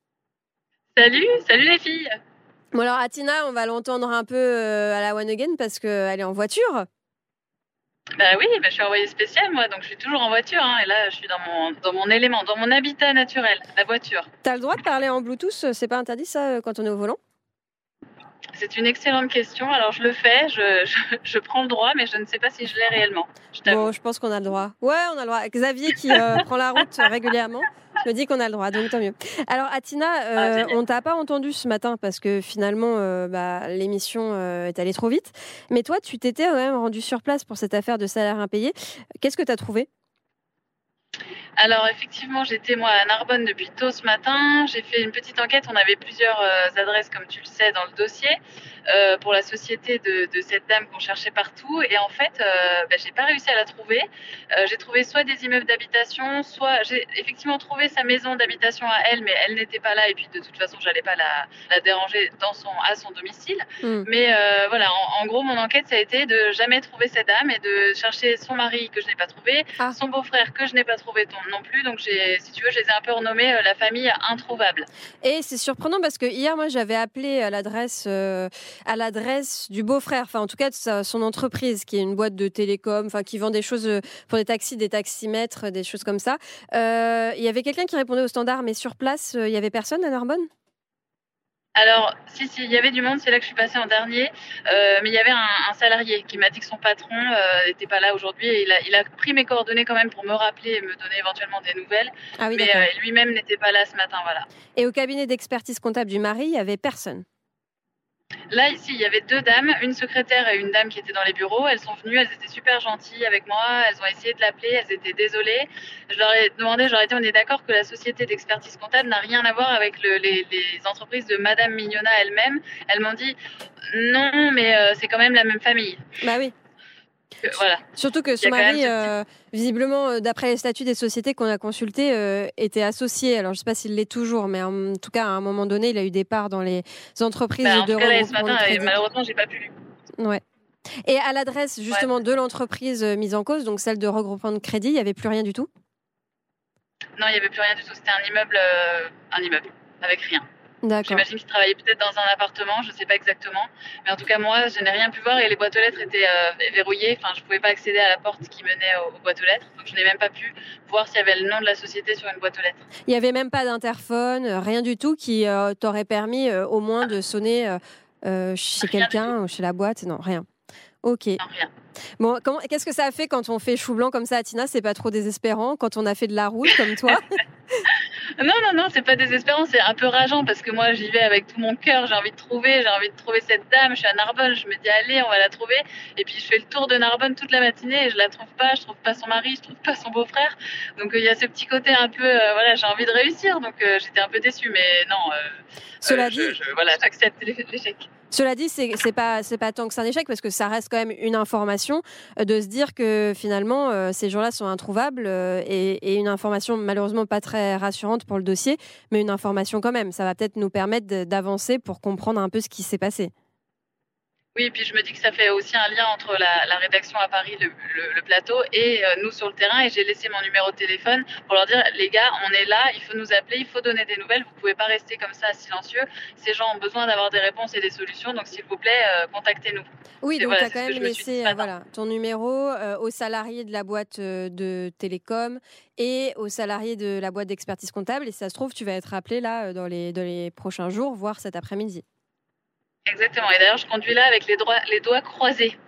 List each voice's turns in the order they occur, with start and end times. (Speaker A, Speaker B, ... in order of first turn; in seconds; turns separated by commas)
Speaker A: 0.9-2.1, Speaker B: 2.7-6.8, Speaker A: 8.2-14.3, Speaker B: 14.4-17.2, Speaker A: 18.6-23.9, Speaker B: 23.6-39.9, Speaker A: 30.4-30.8, Speaker A: 41.6-48.4, Speaker A: 48.9-74.9, Speaker B: 75.2-90.5, Speaker A: 91.8-104.5, Speaker B: 102.4-102.9, Speaker B: 104.8-107.2, Speaker A: 108.5-123.4, Speaker A: 123.9-126.0, Speaker B: 126.2-126.5, Speaker A: 127.4-127.8, Speaker B: 128.0-138.9, Speaker A: 128.4-129.1, Speaker A: 137.6-139.7, Speaker B: 141.1-145.7, Speaker A: 147.2-150.4, Speaker B: 150.8-151.2, Speaker A: 151.0-162.8, Speaker B: 163.1-170.4, Speaker A: 168.8-169.3, Speaker B: 171.0-171.4, Speaker A: 171.4-171.7, Speaker B: 172.2-177.3, Speaker A: 178.4-198.1, Speaker B: 196.0-196.6, Speaker B: 198.3-213.3, Speaker A: 214.5-231.7, Speaker B: 230.2-242.0, Speaker A: 243.1-245.8